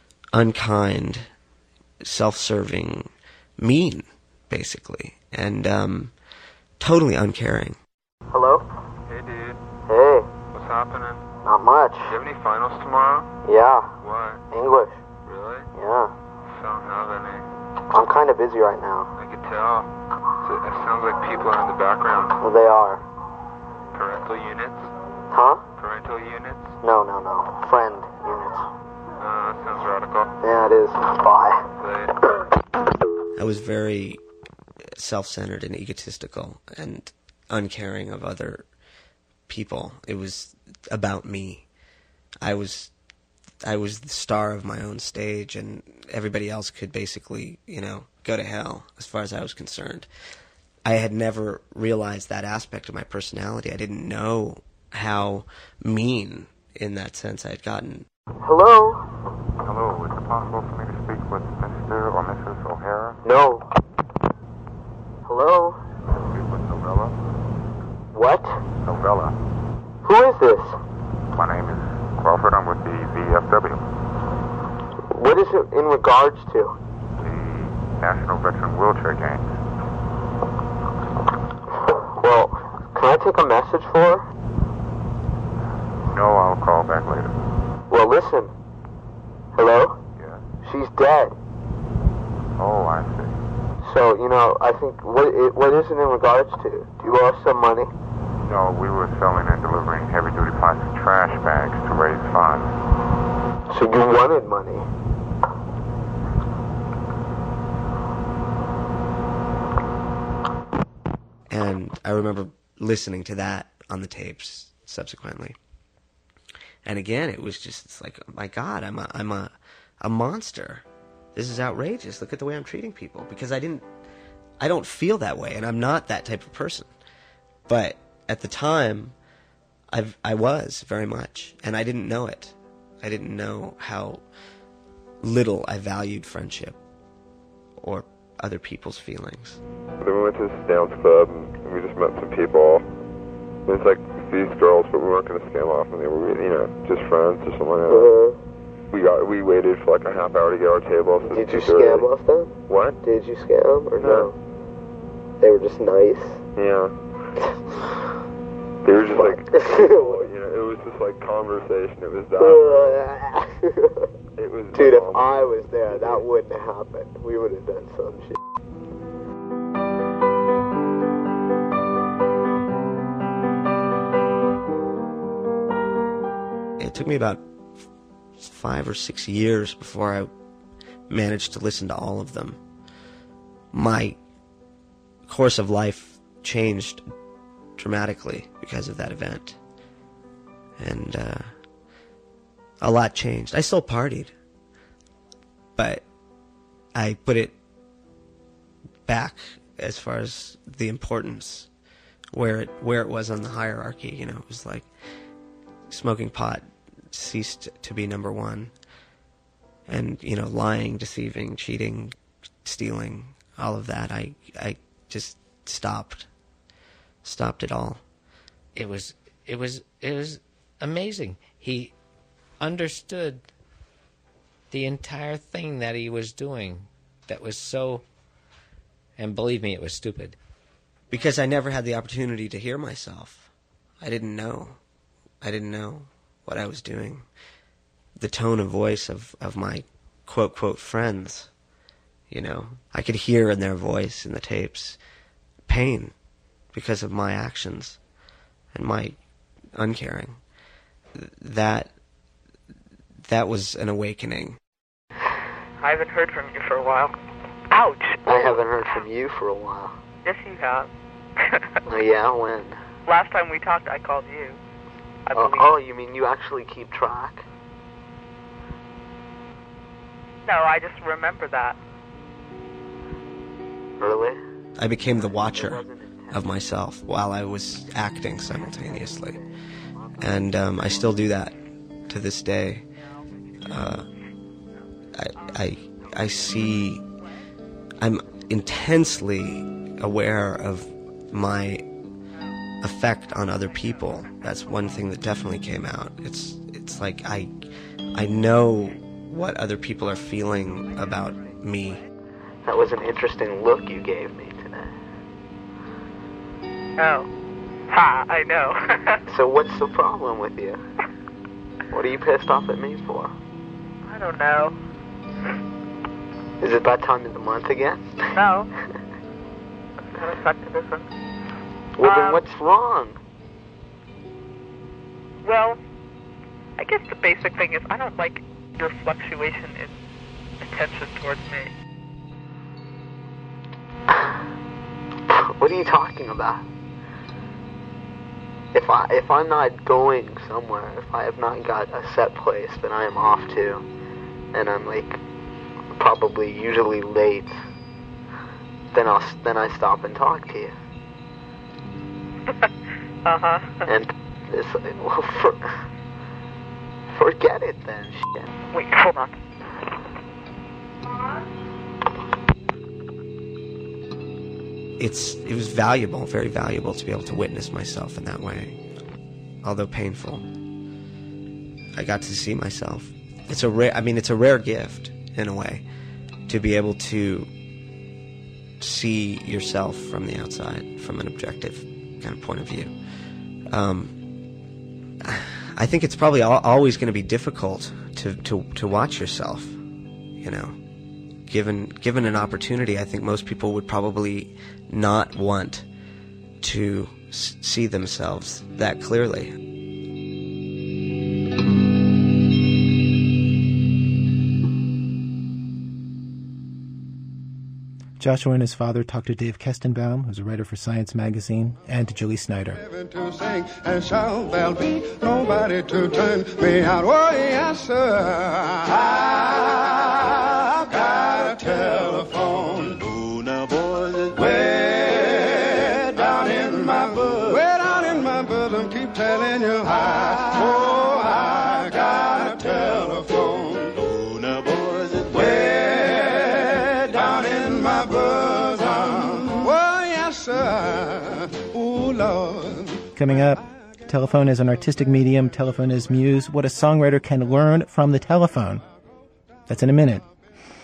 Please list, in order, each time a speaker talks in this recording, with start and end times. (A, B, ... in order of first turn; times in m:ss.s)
0:00.3-0:01.3 A
0:02.0-0:06.1 A
0:06.8-0:07.8 A
0:08.3-0:08.6 B
0:09.1-0:09.6 C
0:09.9-0:10.3 B
0:10.5-0:11.2 C
0:11.4-0:12.1 B
0:12.0-0:13.3 C
0:13.4-0:13.9 B
0:14.0-0:14.4 C
0:14.5-0:15.0 B
0:15.2-0:15.7 C
0:15.7-0:16.1 B
0:16.5-0:17.5 C
0:17.9-0:19.1 B
0:19.2-0:19.9 C
0:20.4-0:22.4 C
0:22.4-0:23.0 B
0:23.9-0:24.9 C
0:25.3-0:25.6 B
0:25.8-0:26.7 C
0:26.8-0:28.6 B
0:29.2-0:30.3 C
0:30.4-0:31.6 B
0:31.8-0:32.1 C
0:33.4-0:34.2 A
0:35.0-0:38.6 A
0:39.5-0:41.6 A
0:42.4-0:42.9 A
0:43.6-0:50.1 A
0:50.8-0:58.1 A
0:58.4-0:59.0 B
0:59.6-1:03.2 D
1:03.2-1:03.6 B
1:05.3-1:05.8 B
1:06.1-1:07.2 D
1:08.1-1:08.6 B
1:08.8-1:09.4 D
1:10.0-1:10.8 B
1:11.4-1:13.8 D
1:15.1-1:16.8 B
1:17.2-1:19.6 D
1:21.8-1:24.3 B
1:26.1-1:27.4 D
1:27.9-1:28.5 B
1:29.6-1:30.0 B
1:30.2-1:30.4 D
1:30.6-1:31.3 B
1:32.6-1:33.4 D
1:33.8-1:37.9 B
1:38.4-1:42.7 D
1:43.7-1:44.8 B
1:51.5-1:55.6 A
1:56.8-2:03.8 A
2:04.6-2:06.9 A
2:07.7-2:09.2 A
2:09.9-2:14.2 A
2:15.2-2:16.8 A
2:17.8-2:19.6 A
2:20.0-2:22.9 E
2:23.7-2:28.1 E
2:27.9-2:28.4 B
2:28.9-2:32.1 E
2:31.3-2:34.4 B
2:32.7-2:33.0 E
2:34.0-2:34.3 E
2:35.4-2:36.4 B
2:36.6-2:36.9 E
2:38.8-2:42.9 E
2:39.0-2:40.3 B
2:42.4-2:44.1 B
2:44.4-2:46.2 E
2:44.7-2:48.4 B
2:56.8-2:57.4 A
2:58.4-3:00.3 A
3:01.1-3:02.6 A
3:03.7-3:04.2 A
3:05.3-3:07.0 A
3:07.8-3:09.6 A
3:10.8-3:11.5 A
3:12.8-3:14.3 A
3:15.8-3:16.0 A
3:17.0-3:17.6 A
3:19.1-3:21.7 A
3:22.3-3:24.9 A
3:25.9-3:28.7 A
3:29.9-3:36.3 A
3:37.2-3:38.0 A
3:38.8-3:41.9 F
3:42.6-3:43.4 F
3:44.7-3:48.0 F
3:49.2-3:50.4 F
3:51.1-3:53.5 A
3:54.0-3:54.8 A
3:55.4-3:57.3 A
3:58.2-4:01.5 A
4:02.3-4:05.0 A
4:05.7-4:06.1 A
4:06.7-4:08.0 A
4:08.7-4:09.2 A
4:09.8-4:10.4 A
4:11.1-4:11.9 A
4:13.3-4:14.6 A
4:15.8-4:17.1 G
4:17.7-4:18.5 G
4:18.2-4:20.0 B
4:20.2-4:20.9 G
4:21.9-4:22.8 B
4:23.1-4:24.6 G
4:25.3-4:25.7 G
4:25.3-4:27.4 B
4:30.5-4:31.8 G
4:34.0-4:34.4 B
4:34.8-4:39.4 A
4:35.2-4:36.4 B
4:39.0-4:39.4 B
4:40.2-4:41.6 A
4:42.1-4:42.8 A
4:43.6-4:44.0 A
4:45.2-4:47.0 A
4:48.0-4:51.8 A
4:52.8-4:57.6 A
4:58.1-5:02.0 A
5:02.6-5:04.9 B
5:07.0-5:07.3 G
5:07.9-5:09.2 G
5:09.3-5:10.8 B
5:11.9-5:13.3 B
5:14.1-5:14.8 G
5:16.6-5:18.0 B
5:18.4-5:18.7 G
5:20.2-5:21.0 G
5:22.0-5:23.2 B
5:22.0-5:22.4 G
5:25.4-5:25.8 G
5:26.8-5:29.9 G
5:30.6-5:31.7 G
5:35.3-5:36.6 B
5:38.7-5:43.8 B
5:44.5-5:45.2 B
5:46.0-5:47.6 B
5:48.9-5:50.7 B
5:53.2-5:53.8 G
5:53.9-5:55.6 B
5:57.1-5:58.5 B
5:58.7-5:59.3 G
6:05.0-6:08.8 A
6:09.6-6:10.5 A
6:12.0-6:15.8 A
6:16.5-6:17.5 A
6:18.8-6:22.9 A
6:23.7-6:24.1 A
6:25.2-6:29.8 A
6:30.4-6:30.8 A
6:31.5-6:35.8 A
6:36.6-6:39.6 A
6:48.2-6:52.8 H
6:52.8-7:03.2 I
7:04.3-7:14.0 I
7:15.2-7:22.9 I
7:23.2-7:28.8 H
7:29.7-7:30.3 H